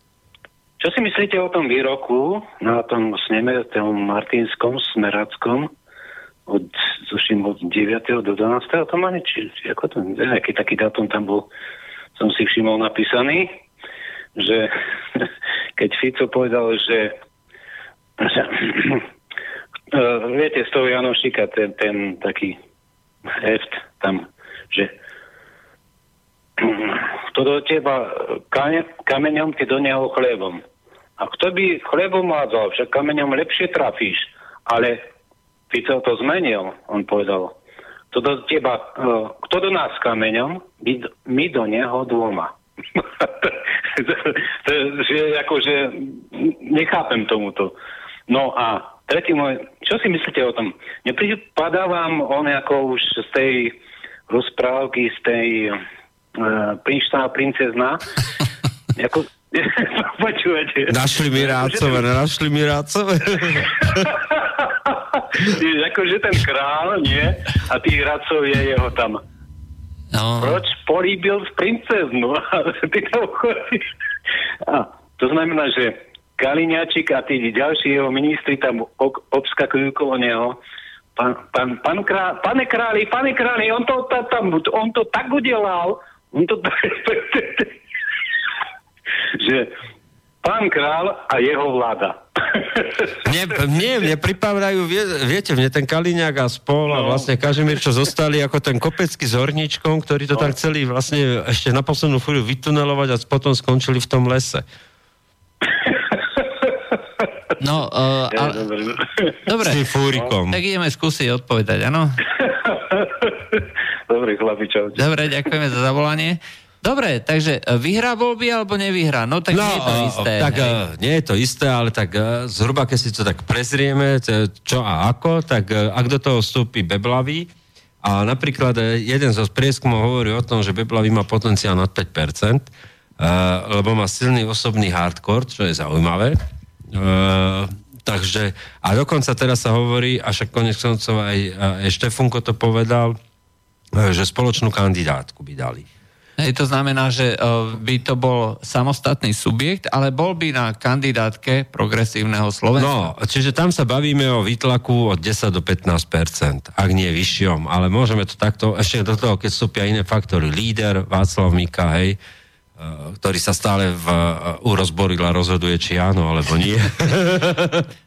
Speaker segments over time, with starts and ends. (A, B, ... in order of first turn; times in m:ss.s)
0:00.8-0:05.7 A
0:06.5-0:11.5 A
0:12.2-0:13.5 A
0:14.4-0:17.1 A
0:18.2-0:19.0 A
0:19.9-0:22.6 A
0:23.4-0:24.9 A
0:26.6-0:30.6 A
0:31.2-0:35.0 A
0:35.7-0:37.6 A
0:38.1-0:47.7 A
0:48.3-0:53.7 A
0:54.3-0:55.8 A
0:56.4-0:58.0 A
0:58.9-1:02.0 A
1:00.9-1:04.1 B
1:03.6-1:09.2 A
1:10.1-1:10.6 C
1:10.4-1:13.8 A
1:14.6-1:20.6 A
1:21.2-1:27.7 A
1:29.4-1:29.7 A
1:30.4-1:33.2 A
1:33.2-1:44.6 B
1:36.9-1:37.3 A
1:45.9-1:46.7 A
1:47.6-1:48.6 C
1:48.3-1:49.4 A
1:49.4-1:49.9 C
1:49.6-1:50.6 B
1:50.5-1:52.1 C
1:52.4-1:55.1 A
1:55.0-2:00.8 C
1:59.5-2:07.5 B
2:08.0-2:16.4 B
2:16.9-2:23.2 B
2:23.9-2:25.8 B
2:26.4-2:33.1 C
2:32.8-2:42.2 B
2:42.8-2:47.9 B